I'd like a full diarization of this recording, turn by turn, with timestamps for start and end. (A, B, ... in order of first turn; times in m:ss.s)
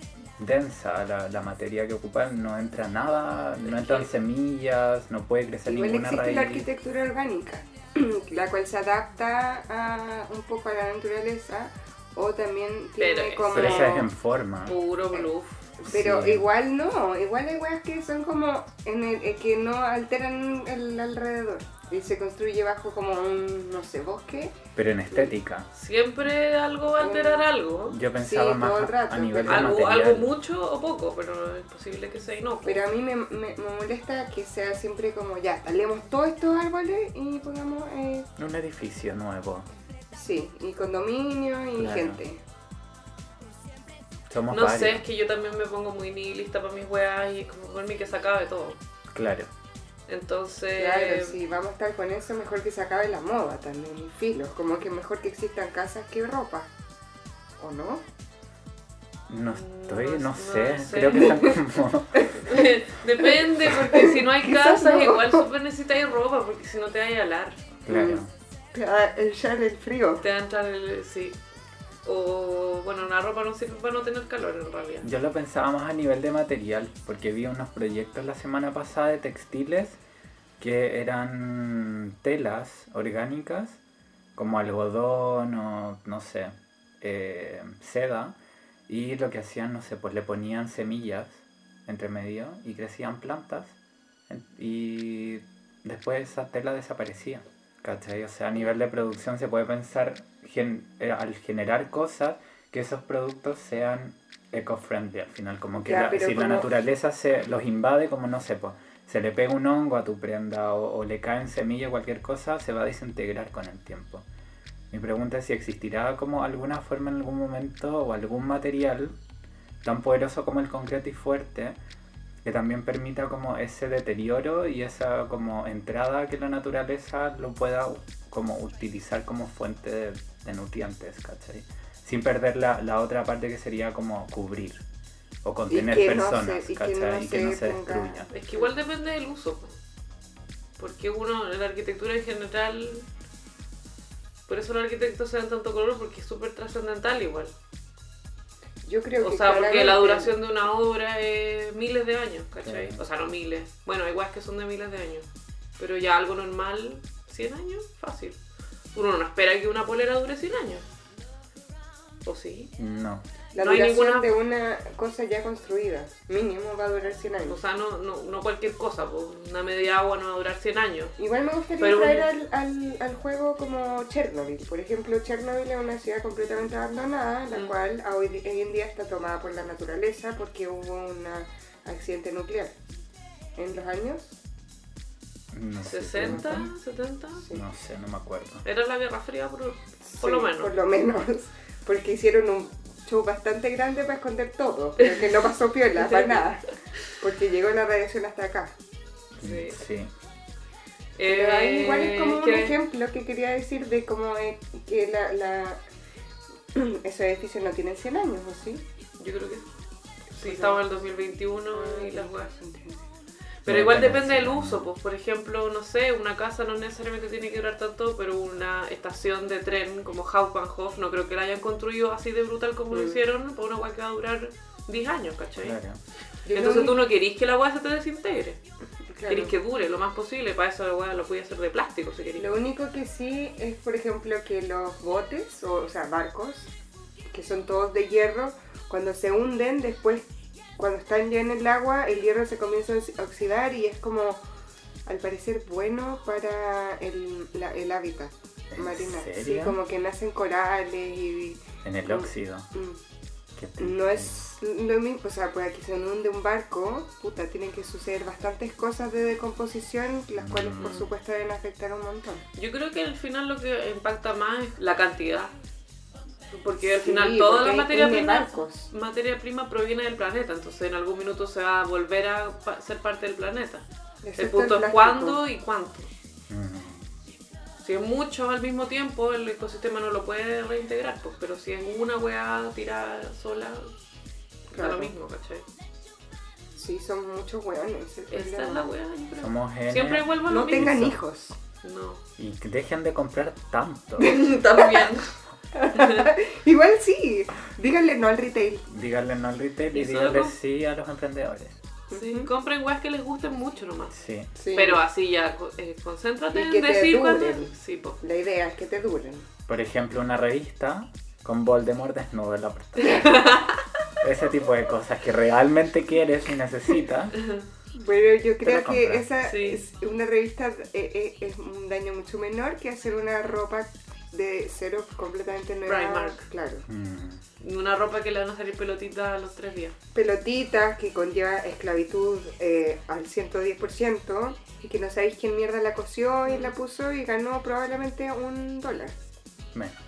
0:00.4-0:06.7 A
0:03.6-0:04.1 B
0:05.7-0:14.1 C
0:13.0-0:14.1 B
0:13.5-0:14.8 A
0:14.6-0:15.7 B
0:15.8-0:24.6 C
0:15.8-0:16.5 A
0:24.8-0:25.7 A
0:25.7-0:28.0 B
0:27.0-0:27.5 C
0:27.9-0:30.3 A
0:28.2-0:29.8 C
0:29.5-0:32.8 B
0:32.6-0:38.3 C
0:38.4-0:39.7 A
0:40.1-0:42.4 C
0:41.8-0:42.2 A
0:44.3-0:45.0 A
0:44.5-0:48.8 B
0:49.1-0:49.5 A
0:50.1-0:51.4 B
0:50.8-0:56.7 C
0:57.6-0:58.0 C
0:59.3-1:02.3 A
0:59.5-1:01.5 B
1:02.3-1:07.6 B
1:03.2-1:05.5 C
1:07.9-1:08.3 A
1:07.9-1:10.2 C
1:10.2-1:11.4 B
1:12.0-1:15.1 B
1:15.0-1:20.0 A
1:20.6-1:23.8 A
1:24.4-1:28.4 A
1:28.9-1:33.8 A
1:34.3-1:54.2 A
1:45.8-1:46.7 C
1:54.9-1:59.2 A
1:59.8-2:01.8 A
2:02.4-2:14.8 A
2:15.4-2:18.3 A
2:15.7-2:18.6 C
2:18.3-2:19.8 B
2:20.8-2:23.1 B
2:24.5-2:27.5 B
2:28.8-2:30.4 C
2:29.2-2:35.3 B
2:32.6-2:33.0 A
2:35.8-2:38.4 B
2:39.0-2:40.8 B
2:42.3-2:42.7 B
2:42.8-2:43.3 A
2:43.5-2:47.6 C
2:43.6-2:44.3 B
2:47.5-2:51.2 B
2:51.2-3:02.7 C
2:51.8-2:52.3 B
3:03.6-3:04.4 C
3:05.5-3:06.7 A
3:05.9-3:07.5 B
3:06.2-3:06.6 C
3:07.5-3:08.6 A
3:08.6-3:10.7 B
3:10.1-3:18.8 C
3:15.0-3:15.3 B
3:16.0-3:17.0 B
3:19.4-3:19.8 B
3:19.4-3:20.1 A
3:21.2-3:22.8 B
3:21.3-3:25.8 C
3:26.7-3:28.8 C
3:29.2-3:29.7 B
3:30.4-3:32.5 B
3:30.4-3:31.0 C
3:31.7-3:33.1 C
3:33.7-3:34.9 A
3:33.7-3:45.8 B
3:42.9-3:43.2 C
3:45.6-3:46.0 A
3:46.5-3:47.0 C
3:46.5-3:48.6 B
3:49.1-3:49.6 C
3:49.3-3:52.5 B
3:52.4-3:56.7 C
3:57.3-4:00.3 C
4:00.8-4:04.4 C
4:05.1-4:13.0 C
4:08.7-4:09.8 A
4:11.8-4:12.7 A
4:13.6-4:14.3 A
4:13.8-4:22.4 C
4:20.4-4:21.1 A
4:22.6-4:25.5 B
4:26.5-4:33.8 B
4:26.8-4:28.9 C
4:34.2-4:35.4 C
4:34.4-4:36.1 B
4:36.5-4:37.0 A
4:37.8-4:43.9 B
4:44.7-4:45.7 B
4:44.7-4:45.1 C
4:46.8-4:48.9 C
4:48.3-4:50.9 B
4:49.3-4:51.2 A
4:50.5-4:51.6 C
4:51.8-4:52.2 B
4:52.4-4:54.4 A
4:54.2-4:55.3 B
4:54.8-4:55.1 C
4:55.7-4:58.9 C
4:55.9-4:56.3 B
4:58.9-5:01.8 A
4:59.9-5:00.6 B
5:02.1-5:02.5 C
5:02.1-5:04.2 B
5:04.1-5:04.5 A
5:04.6-5:05.0 C
5:04.7-5:08.2 B
5:06.5-5:09.5 C
5:09.7-5:13.4 A
5:13.0-5:13.9 B
5:14.2-5:17.4 A
5:17.4-5:17.7 B
5:18.0-5:26.9 C
5:18.6-5:19.3 A
5:19.4-5:19.8 B
5:25.9-5:26.4 B
5:26.9-5:27.4 A
5:27.6-5:30.0 B
5:30.1-5:39.2 C
5:36.5-5:36.7 B